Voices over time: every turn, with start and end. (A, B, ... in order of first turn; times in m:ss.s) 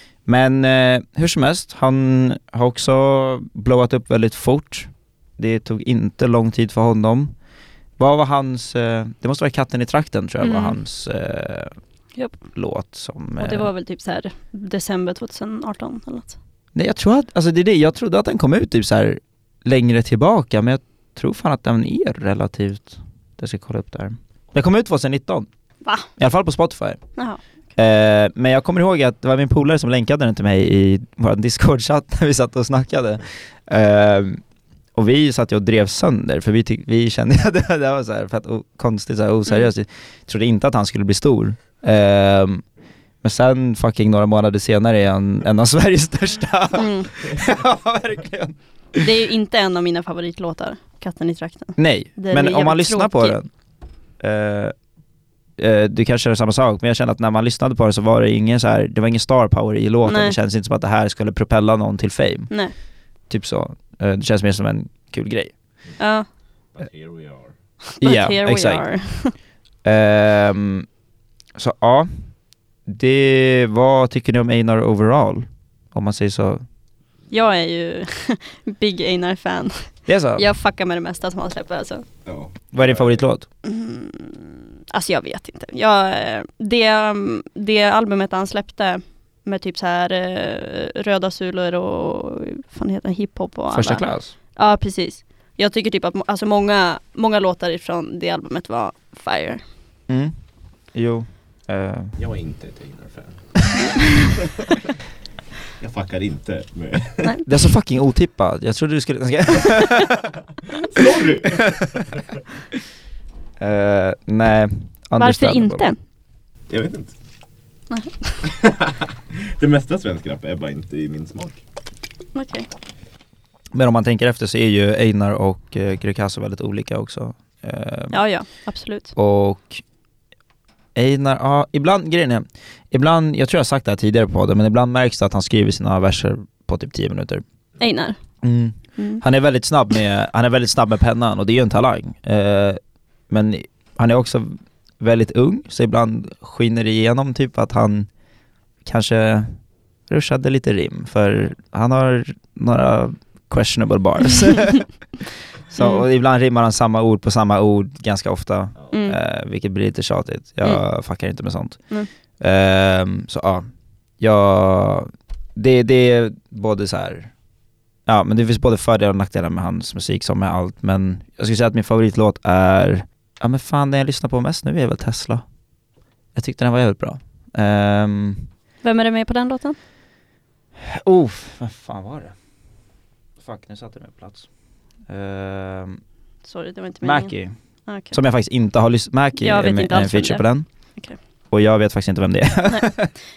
0:00.2-0:07.3 A
0:08.0-0:11.8 A
0:10.4-0:10.8 B
0:12.5-0:13.7 A
0:13.4-0:16.4 B
0:16.7-0:25.5 A
0:26.2-0:27.0 A
0:27.8-0:34.4 A
0:34.9-0:42.6 A
0:43.2-0:49.0 A
0:46.8-0:47.1 B
0:49.0-0:53.4 B
0:51.8-0:53.5 A
0:54.2-0:54.7 A
0:55.6-1:02.5 A
1:00.0-1:00.4 B
1:03.3-1:05.5 A
1:06.0-1:06.2 B
1:06.8-1:07.5 C
1:08.0-1:09.3 B
1:08.0-1:08.9 A
1:09.8-1:10.9 A
1:11.6-1:12.1 A
1:12.8-1:16.6 A
1:17.3-1:22.0 B
1:20.1-1:20.5 A
1:22.3-1:23.0 C
1:22.7-1:23.4 A
1:23.6-1:39.6 B
1:33.7-1:34.3 A
1:40.1-1:40.3 A
1:40.9-1:42.2 A
1:42.2-1:43.3 C
1:45.8-1:47.2 C
1:47.4-1:50.1 A
1:50.9-1:51.6 C
1:53.6-1:55.9 A
1:55.2-1:56.0 B
1:56.7-1:57.1 C
1:57.9-1:58.4 B
1:59.6-2:01.6 C
2:02.3-2:02.7 B
2:03.7-2:08.2 A
2:08.1-2:09.1 B
2:09.2-2:09.8 A
2:10.9-2:17.4 A
2:17.8-2:18.2 B
2:18.4-2:28.1 A
2:19.0-2:19.2 B
2:28.8-2:29.6 A
2:30.1-2:34.9 A
2:35.7-2:41.8 A
2:35.8-2:36.0 B
2:38.9-2:39.2 B
2:42.4-2:43.7 A
2:44.2-2:47.3 A
2:48.1-2:55.4 A
2:56.3-2:58.5 A
2:58.8-2:59.8 B
3:00.8-3:02.3 A
3:03.4-3:04.5 A
3:05.1-3:06.0 A
3:06.4-3:07.3 B
3:07.0-3:07.5 A
3:07.9-3:08.2 B
3:08.1-3:10.7 A
3:09.4-3:10.4 B
3:11.5-3:13.1 A